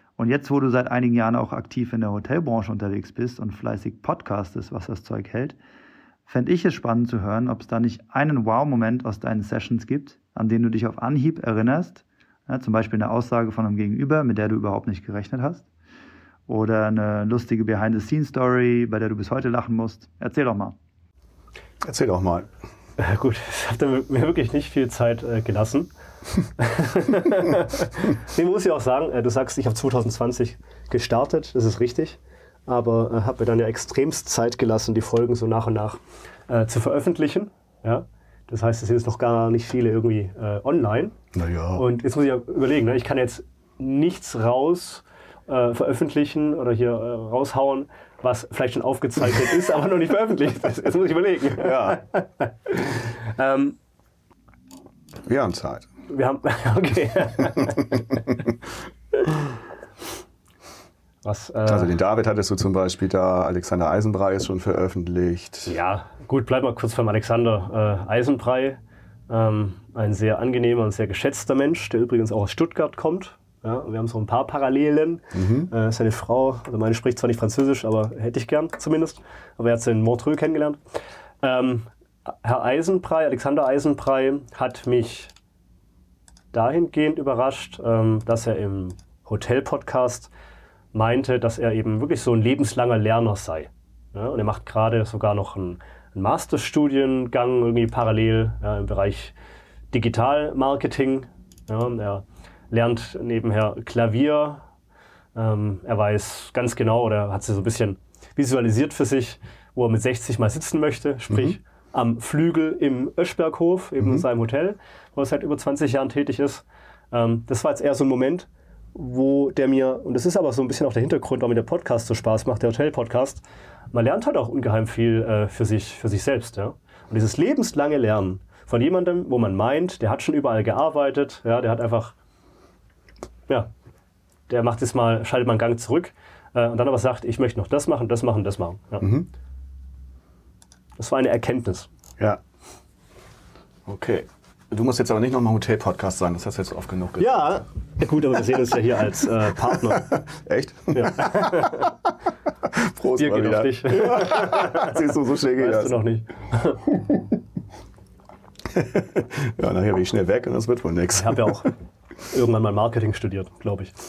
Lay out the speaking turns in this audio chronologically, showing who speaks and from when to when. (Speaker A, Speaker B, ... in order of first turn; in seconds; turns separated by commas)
Speaker A: 0.2-5.6, Speaker A: 6.3-15.7, Speaker A: 16.5-20.8, Speaker B: 21.8-22.5, Speaker C: 23.0-25.9, Speaker C: 26.6-41.1, Speaker B: 41.3-41.9, Speaker C: 41.8-53.8, Speaker B: 51.6-52.0, Speaker B: 55.2-55.9, Speaker C: 56.1-58.0, Speaker C: 61.2-61.9, Speaker B: 61.6-65.8, Speaker C: 65.7-80.8, Speaker B: 75.3-75.7, Speaker C: 81.4-85.3, Speaker C: 86.5-90.3, Speaker C: 90.9-99.3, Speaker C: 99.9-104.6, Speaker C: 105.3-132.1, Speaker B: 111.3-111.6, Speaker C: 134.5-139.1, Speaker B: 139.0-139.3, Speaker C: 141.0-141.9, Speaker B: 143.9-147.6, Speaker C: 147.2-150.1, Speaker B: 149.7-151.9, Speaker C: 150.9-151.9, Speaker B: 152.7-155.9, Speaker C: 153.2-154.9, Speaker C: 155.6-156.8, Speaker B: 156.9-157.2, Speaker B: 158.7-161.7, Speaker C: 161.2-161.7, Speaker C: 162.3-163.9